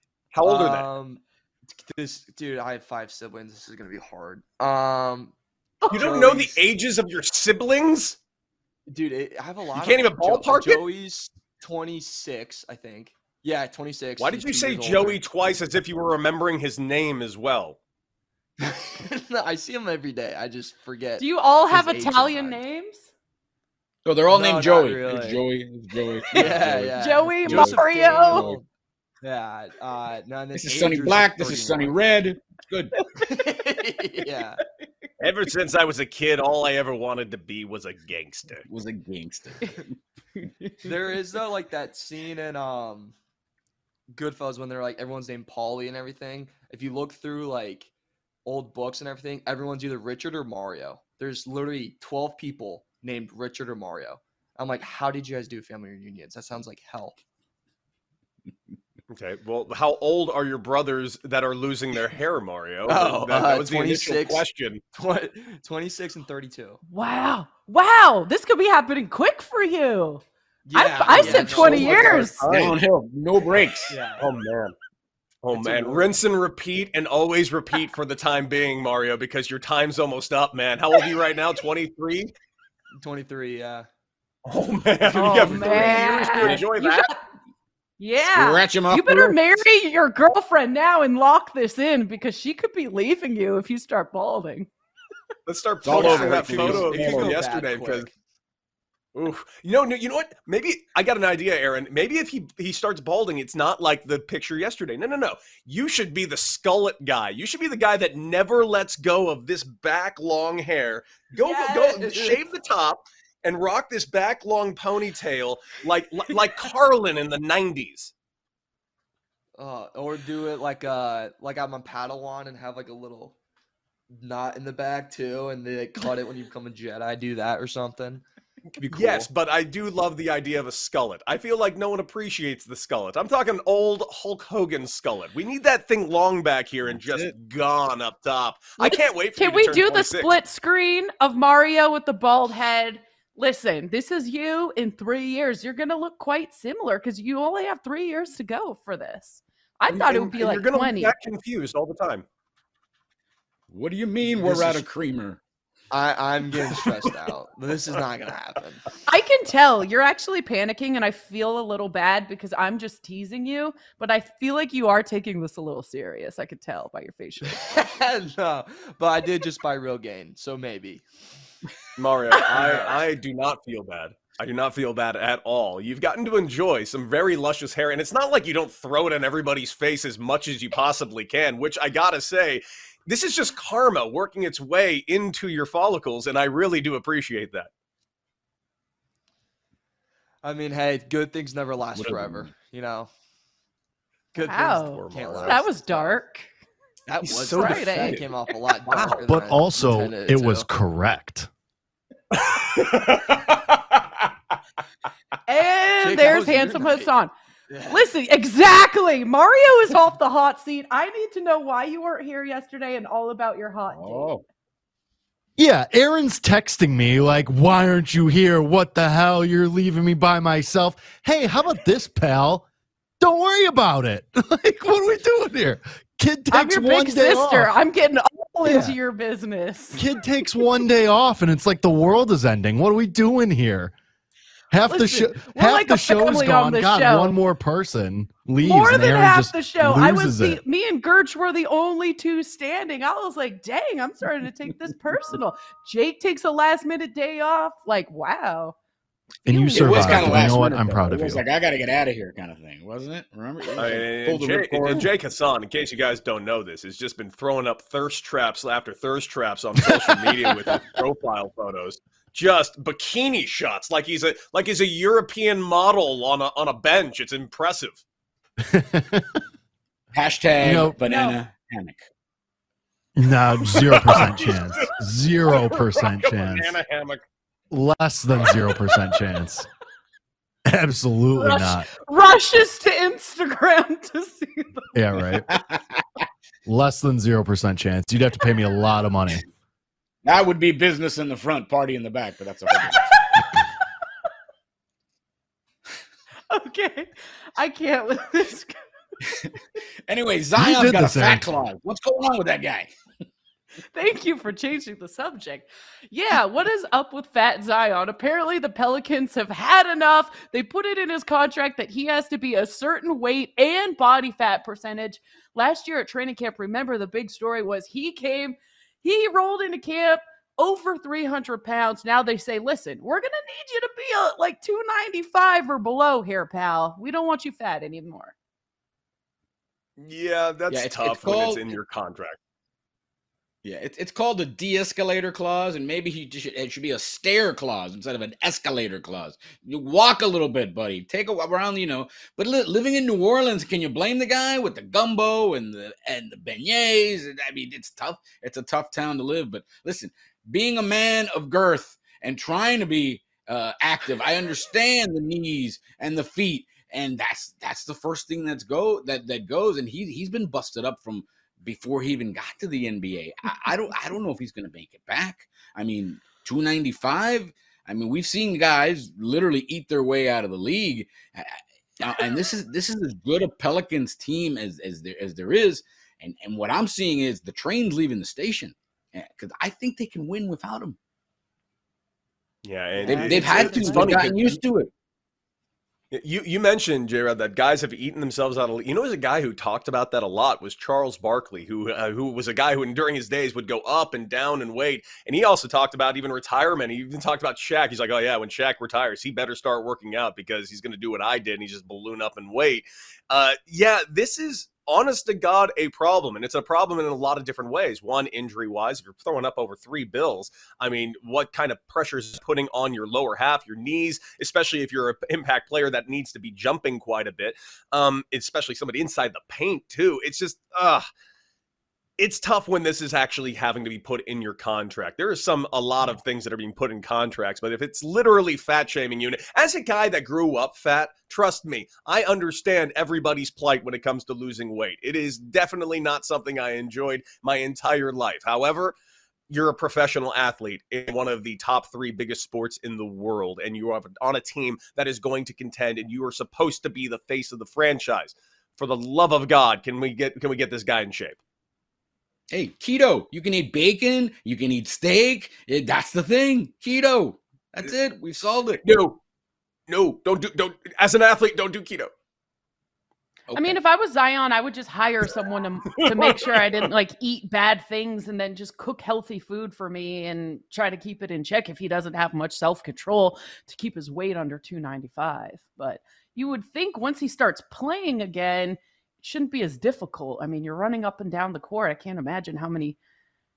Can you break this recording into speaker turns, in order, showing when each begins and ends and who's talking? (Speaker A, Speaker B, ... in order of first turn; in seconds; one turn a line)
Speaker A: 0.3-0.9
Speaker B: 0.4-6.6
Speaker C: 5.8-6.1
Speaker A: 5.9-8.2
Speaker B: 8.9-15.2
Speaker A: 9.7-10.8
Speaker A: 14.2-17.8
Speaker B: 18.6-22.6
Speaker C: 21.2-23.1
Speaker D: 24.0-28.6
Speaker B: 24.3-25.4
Speaker B: 26.3-28.6
Speaker C: 27.0-28.5
Speaker B: 29.2-32.0
Speaker D: 30.6-32.9
Speaker C: 33.0-33.3
Speaker B: 33.2-34.6
Speaker A: 35.2-38.6
Speaker D: 38.6-39.8
Speaker B: 40.8-43.1
Speaker B: 44.1-47.9
Speaker B: 48.4-57.2
Speaker A: 59.1-64.8
Speaker B: 62.9-66.8
Speaker C: 66.9-70.2
Speaker B: 70.6-72.3
Speaker C: 70.7-72.4
Speaker A: 71.1-72.8
Speaker D: 72.4-73.9
Speaker B: 73.9-74.3
Speaker A: 74.2-74.7
Speaker A: 75.4-82.3
Speaker B: 75.5-76.2
Speaker B: 83.0-83.9
Speaker A: 84.5-87.1
Speaker B: 85.0-86.1
Speaker C: 85.1-87.2
Speaker D: 85.6-86.6
Speaker C: 88.0-94.7
Speaker D: 88.3-89.4
Speaker A: 95.5-98.1
Speaker D: 95.8-97.4
Speaker B: 95.9-98.1
Speaker A: 99.1-118.1
Speaker B: 111.3-112.8
Speaker B: 119.5-123.3
Speaker B: 124.1-128.2
Speaker B: 128.8-129.3
Speaker A: 128.9-140.3
Speaker D: 136.8-137.3
Speaker C: 138.8-151.1
Speaker A: 149.9-152.2
Speaker D: 153.7-155.4
Speaker B: 154.2-154.8
Speaker B: 155.9-158.9
Speaker C: 159.1-167.6
Speaker B: 167.5-171.1
Speaker A: 172.0-187.7
Speaker B: 172.4-173.1
Speaker B: 190.4-193.1
Speaker D: 192.0-192.5
Speaker B: 194.3-196.2
Speaker C: 194.4-196.5
Speaker A: 194.8-195.6
Speaker B: 197.1-200.7
Speaker A: 197.2-198.2
Speaker C: 197.5-198.2
Speaker A: 198.8-199.2
Speaker E: 199.2-201.5
Speaker A: 202.3-204.0
Speaker C: 205.4-207.3
Speaker B: 206.0-207.1
Speaker B: 207.7-208.1
Speaker C: 207.9-214.3
Speaker D: 213.9-214.4
Speaker E: 215.6-222.6
Speaker E: 223.2-227.7
Speaker C: 226.5-230.0
Speaker E: 228.6-228.9
Speaker E: 229.9-233.9
Speaker E: 234.7-240.6
Speaker C: 234.8-237.4
Speaker C: 238.6-248.8
Speaker E: 249.4-251.4
Speaker C: 249.5-250.5
Speaker D: 249.7-255.1
Speaker A: 253.8-268.0
Speaker E: 259.9-260.8
Speaker E: 268.7-269.2
Speaker D: 270.1-272.0
Speaker E: 270.6-271.0
Speaker C: 271.0-271.3
Speaker E: 273.1-276.8
Speaker A: 273.7-274.9
Speaker A: 275.5-277.2
Speaker E: 277.7-279.7
Speaker E: 280.7-281.9
Speaker C: 281.4-284.9
Speaker E: 284.9-285.4
Speaker E: 286.6-289.4
Speaker D: 290.2-293.0
Speaker C: 296.5-298.8
Speaker D: 300.1-302.9
Speaker E: 300.6-301.6
Speaker C: 303.9-328.3
Speaker A: 330.0-332.4
Speaker D: 330.7-331.8
Speaker D: 333.6-381.0
Speaker A: 382.6-384.6
Speaker C: 383.0-384.2
Speaker D: 383.0-384.9
Speaker A: 386.1-421.0
Speaker A: 422.2-438.9
Speaker A: 439.5-451.4
Speaker D: 452.5-458.9
Speaker A: 458.8-459.2
Speaker A: 459.9-462.1
Speaker D: 463.5-463.8
Speaker C: 463.5-483.0
Speaker A: 466.0-466.6